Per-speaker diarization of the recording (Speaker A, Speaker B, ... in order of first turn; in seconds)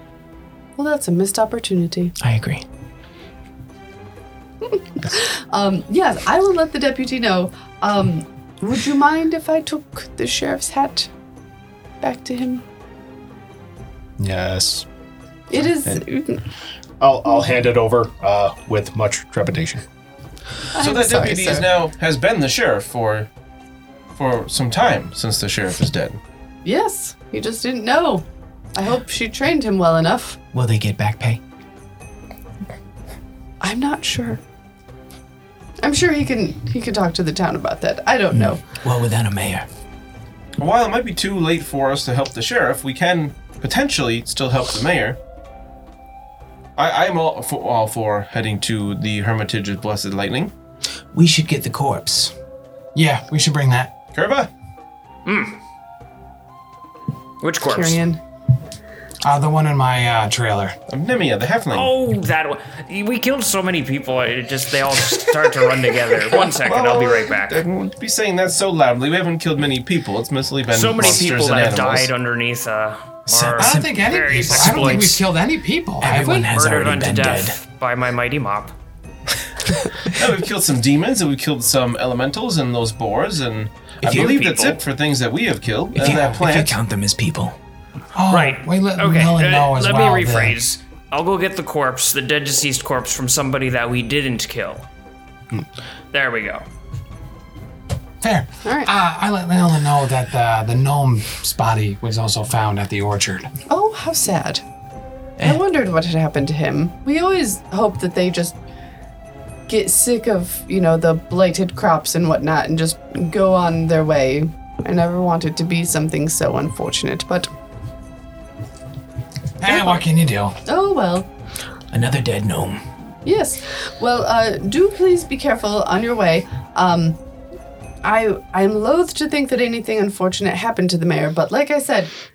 Speaker A: 0.8-2.1, 4.6-11.1, 12.0-12.6, 15.5-16.4, 20.7-21.7, 26.6-30.4, 33.6-34.4, 35.8-38.6, 57.6-58.2, 98.6-98.9, 103.7-104.6, 105.4-108.5, 109.7-117.5, 119.6-120.0, 120.6-121.3, 123.2-127.2, 128.0-132.1
Speaker B: 2.2-2.6, 30.5-31.4, 38.3-39.7, 51.1-52.3, 73.3-75.1, 76.0-77.6, 84.0-84.4, 85.9-87.6, 121.9-122.9
Speaker C: 14.2-14.9, 17.0-19.8
Speaker D: 20.8-23.3, 24.1-26.2, 40.6-45.2, 46.8-50.5, 54.1-54.5, 60.9-61.9, 66.4-72.1, 80.0-86.8
Speaker E: 52.9-53.9, 59.2-60.8, 73.6-76.4, 88.1-90.7, 98.2-103.5, 119.6-120.5
Speaker F: 55.2-55.6, 57.4-58.0, 61.7-67.6, 70.7-75.2, 76.1-78.7, 84.0-84.8, 88.3-94.9, 96.1-96.6